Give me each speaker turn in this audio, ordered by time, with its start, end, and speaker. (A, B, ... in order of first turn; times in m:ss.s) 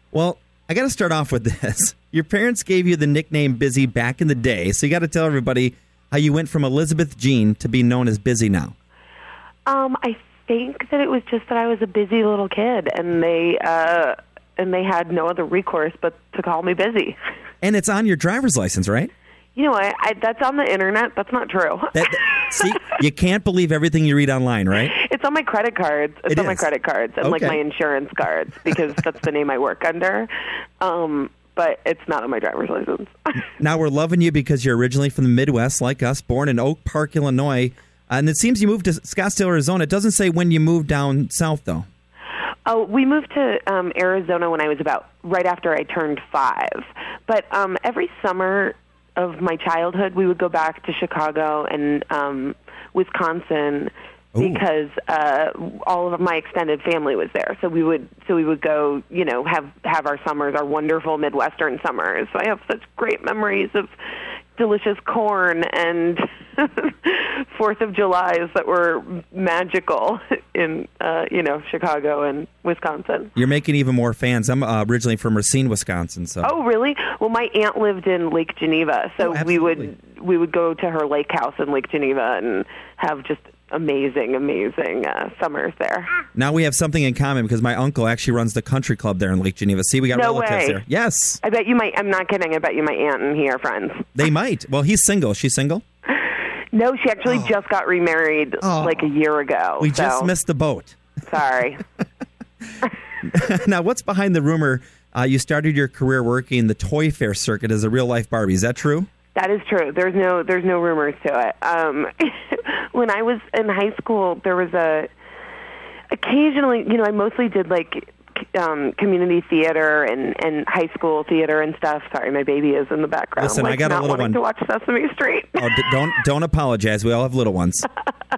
0:00.1-0:08.8 A
0:09.7-0:17.2 B
0:17.6-0:19.1 A
0:19.6-0:22.7 B
0:21.9-0:25.0 A
0:24.9-0:33.4 B
0:26.3-0:26.7 A
0:27.2-0:27.6 A
0:33.6-0:41.9 A
0:42.7-1:03.9 B
0:54.4-0:54.6 A
1:04.6-1:13.3 B
1:13.4-1:16.5 A
1:16.4-1:26.2 B
1:19.2-1:19.9 A
1:26.4-1:31.4 A
1:30.1-1:30.8 B
1:31.4-1:34.2 B
1:34.2-1:35.8 A
1:36.1-1:40.3 B
1:38.6-1:39.1 A
1:39.8-1:41.0 A
1:41.2-1:41.8 B
1:43.2-1:49.1 A
1:49.4-1:55.1 B
1:56.1-2:05.9 B
2:03.4-2:04.4 A
2:05.6-2:07.9 A